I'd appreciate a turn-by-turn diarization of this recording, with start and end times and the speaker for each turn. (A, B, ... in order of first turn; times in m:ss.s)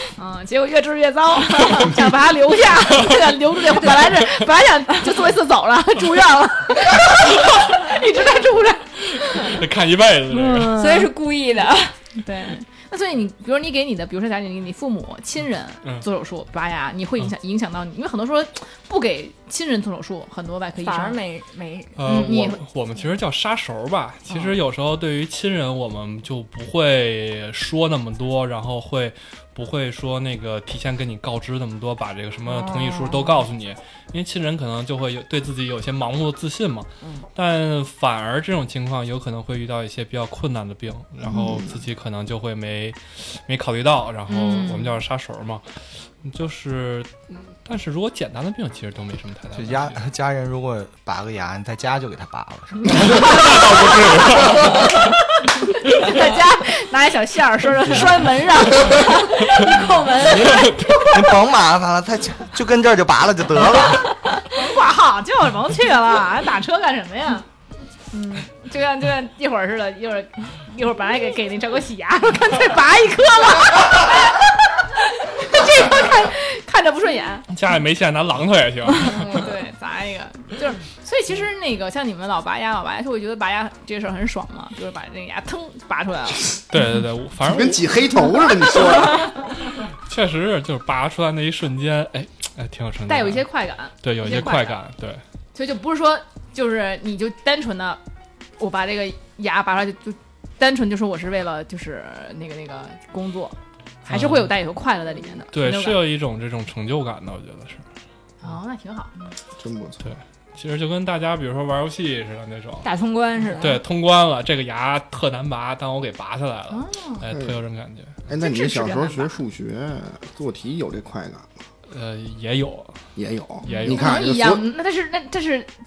0:00.2-0:09.6 A
0:09.2-0:10.7 B
0:10.3-0:11.1 A
0:10.7-0:11.9 C
0:12.1-0:21.2 A
0:20.8-0:22.4 C
0:22.0-0:45.7 B
0:22.0-0:22.6 A
0:32.5-0:33.3 C
0:37.0-0:37.3 C
0:41.2-0:41.7 D
0:44.3-0:45.0 A
0:46.2-0:50.0 B
0:49.5-0:53.5 E
0:52.9-0:54.7 B
0:53.1-0:53.7 A
0:55.6-1:00.9 A
1:00.3-1:01.2 B
1:01.0-1:04.0 E
1:04.5-1:07.5 A
1:08.1-1:17.5 A
1:17.5-1:19.4 B
1:19.0-1:26.6 A
1:26.7-1:27.9 B
1:27.5-1:29.3 D
1:30.0-1:33.4 B
1:33.1-1:34.8 A
1:34.0-1:35.2 B
1:35.5-1:38.0 A
1:38.6-1:46.0 A
1:44.1-1:44.5 B
1:45.5-1:47.8 B
1:48.4-1:49.1 A
1:49.6-1:50.0 D
1:50.0-1:52.9 B
1:52.8-1:53.8 C
1:53.6-1:58.2 B
1:56.7-1:57.2 A
1:57.3-1:57.6 D
1:58.3-2:01.5 D
1:58.4-1:59.4 A
2:01.9-2:03.0 B
2:03.2-2:04.7 D
2:03.6-2:04.0 B
2:03.6-2:05.7 A